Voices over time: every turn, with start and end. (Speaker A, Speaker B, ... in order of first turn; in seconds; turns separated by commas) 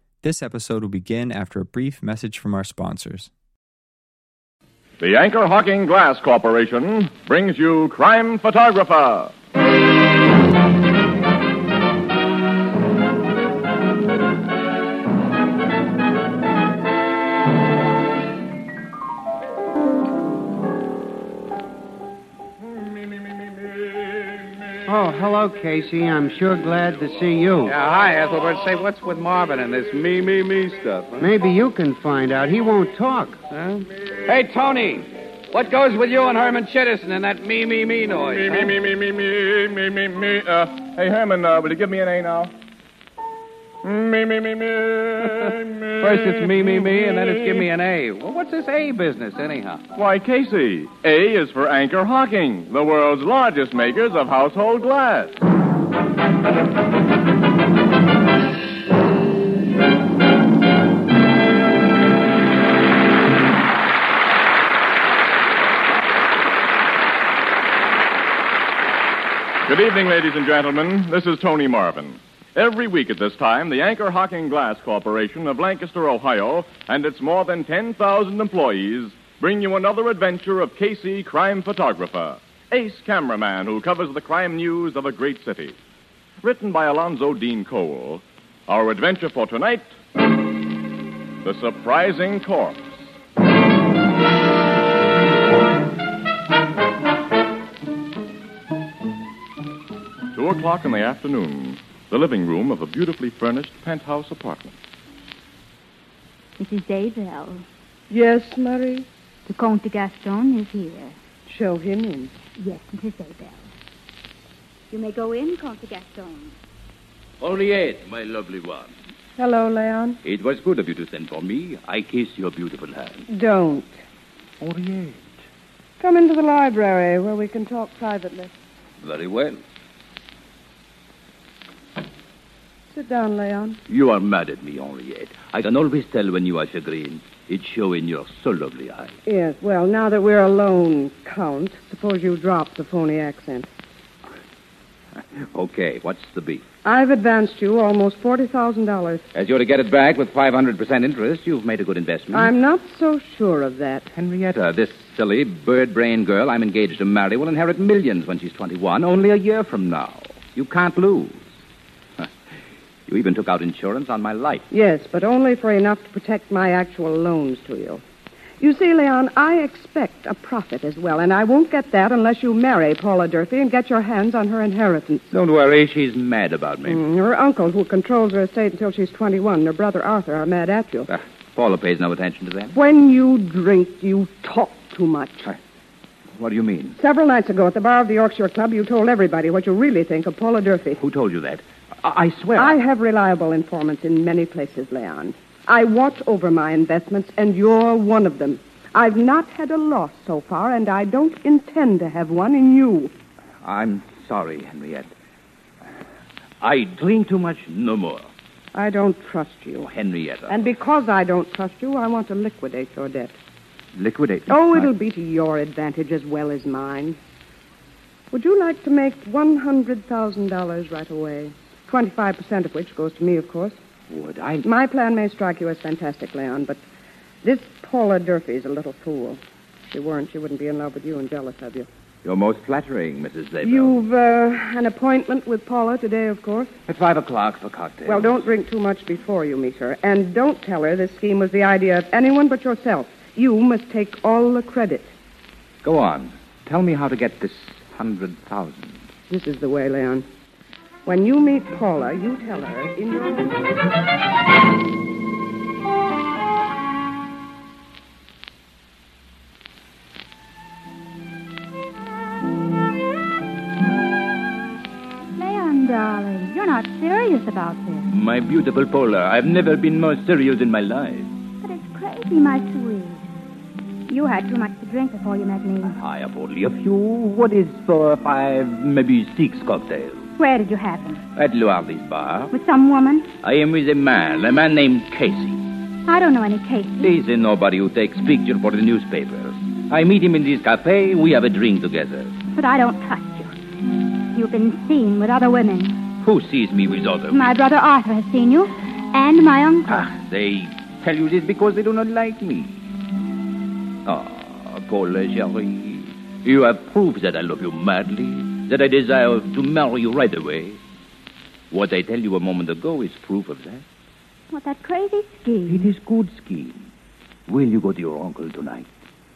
Speaker A: 0.2-3.3, Speaker B: 5.0-9.3, Speaker C: 24.8-27.8, Speaker D: 27.6-31.2, Speaker C: 31.2-33.4, Speaker D: 33.5-38.7, Speaker B: 38.4-42.5, Speaker B: 43.8-46.9, Speaker D: 46.0-49.8, Speaker B: 49.9-55.4, Speaker B: 69.7-85.8, Speaker B: 86.4-90.0, Speaker B: 91.4-93.0, Speaker B: 100.3-104.7, Speaker E: 106.6-107.6, Speaker F: 108.1-109.1, Speaker E: 109.5-111.1, Speaker F: 111.5-112.3, Speaker E: 112.6-113.7, Speaker E: 114.9-116.5, Speaker G: 117.4-118.9, Speaker F: 119.4-120.2, Speaker G: 120.2-123.2, Speaker F: 123.3-124.0, Speaker G: 124.6-125.2, Speaker F: 126.0-128.5, Speaker G: 129.0-129.6, Speaker F: 132.9-133.8, Speaker G: 133.9-139.1, Speaker F: 139.2-143.7, Speaker G: 145.4-146.6, Speaker F: 146.8-149.2, Speaker G: 149.3-152.5, Speaker F: 152.3-154.1, Speaker G: 154.1-161.5, Speaker G: 163.1-164.7, Speaker F: 164.7-168.0, Speaker F: 168.6-175.2, Speaker G: 175.3-177.0, Speaker F: 176.8-181.1, Speaker G: 181.1-182.8, Speaker F: 182.7-185.5, Speaker G: 186.4-187.0, Speaker F: 187.0-191.0, Speaker G: 191.0-192.8, Speaker F: 192.5-203.1, Speaker G: 203.6-205.1, Speaker G: 206.6-208.3, Speaker F: 208.7-209.9, Speaker G: 209.8-210.6, Speaker F: 210.5-213.4, Speaker G: 213.9-214.9, Speaker F: 214.5-217.2, Speaker F: 218.3-223.8, Speaker G: 224.1-224.7, Speaker F: 224.6-226.8, Speaker F: 227.4-231.9, Speaker G: 232.2-234.0, Speaker F: 233.6-236.7, Speaker G: 236.9-238.4, Speaker F: 238.0-245.1, Speaker G: 245.8-249.0, Speaker F: 249.3-250.2, Speaker F: 251.1-253.7, Speaker E: 265.4-268.1, Speaker G: 268.1-271.3, Speaker E: 271.6-273.2, Speaker E: 274.1-275.9, Speaker G: 275.9-280.3, Speaker E: 280.4-281.2, Speaker G: 281.4-282.5, Speaker E: 282.5-283.3, Speaker G: 283.4-285.6, Speaker E: 286.1-287.1, Speaker G: 287.0-292.4, Speaker E: 292.5-293.5, Speaker E: 294.3-296.0, Speaker G: 296.2-297.5, Speaker E: 297.3-300.0, Speaker G: 299.9-302.9, Speaker G: 304.0-310.8, Speaker G: 311.7-313.8, Speaker E: 314.5-315.9, Speaker G: 315.7-316.9, Speaker G: 317.5-318.9